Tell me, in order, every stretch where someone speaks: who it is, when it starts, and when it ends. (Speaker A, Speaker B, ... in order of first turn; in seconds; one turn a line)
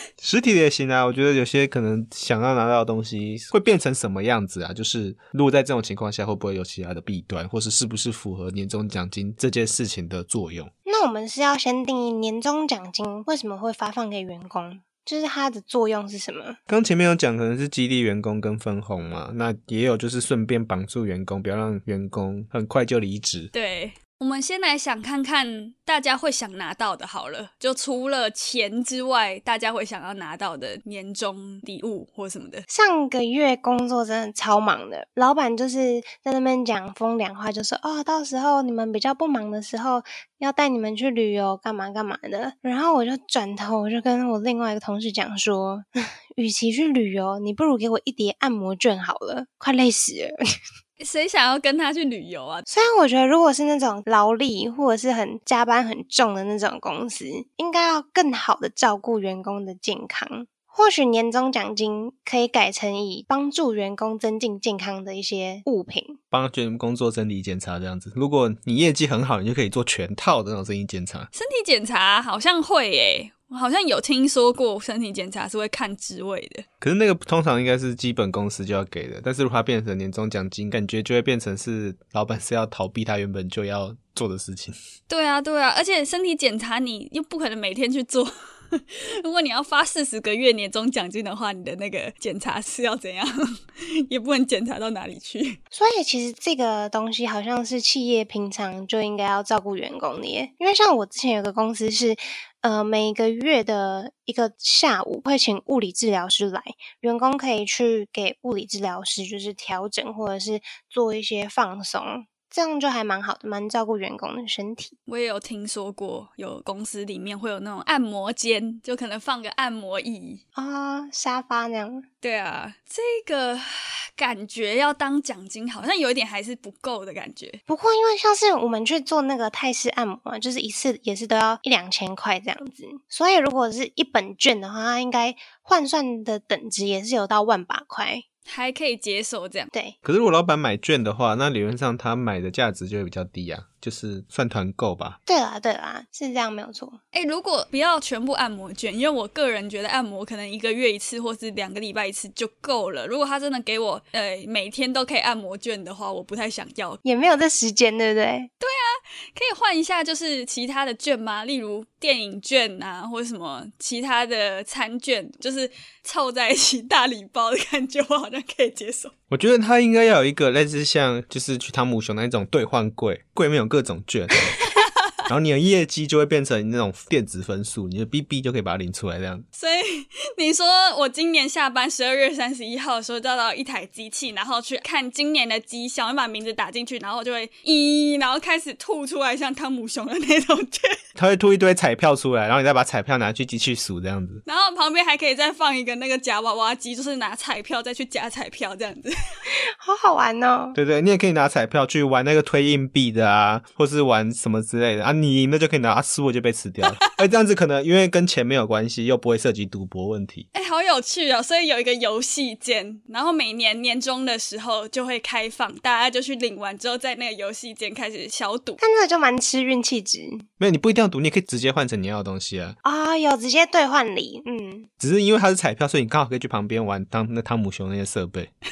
Speaker A: 0.2-10.7
Speaker B: 10.9-16.6
Speaker A: 16.7-23.5
Speaker C: 23.5-32.6
Speaker B: 32.7-50.3
Speaker C: 51.0-52.6
Speaker B: 52.7-66.2
Speaker A: 66.3-71.3
Speaker C: 71.3-76.7
Speaker A: 76.8-84.8
Speaker C: 85.1-93.3
Speaker C: 94.1-95.6
Speaker B: 95.7-115.0
Speaker C: 115.1-120.4
Speaker B: 120.6-122.0
Speaker C: 122.2-127.6
Speaker B: 127.7-138.2
Speaker C: 138.5-139.7
Speaker A: 140.0-145.2
Speaker B: 145.3-147.0
Speaker C: 147.1-157.0
Speaker B: 157.1-158.5
Speaker C: 158.6-169.1
Speaker A: 169.3-174.5
Speaker A: 175.3-179.4
Speaker C: 179.6-191.0
Speaker A: 191.2-194.4
Speaker C: 194.5-199.1
Speaker B: 199.8-200.8
Speaker A: 200.8-210.5
Speaker C: 210.5-218.8
Speaker B: 218.8-220.4
Speaker A: 220.6-222.8
Speaker B: 222.8-224.9
Speaker A: 225.0-228.5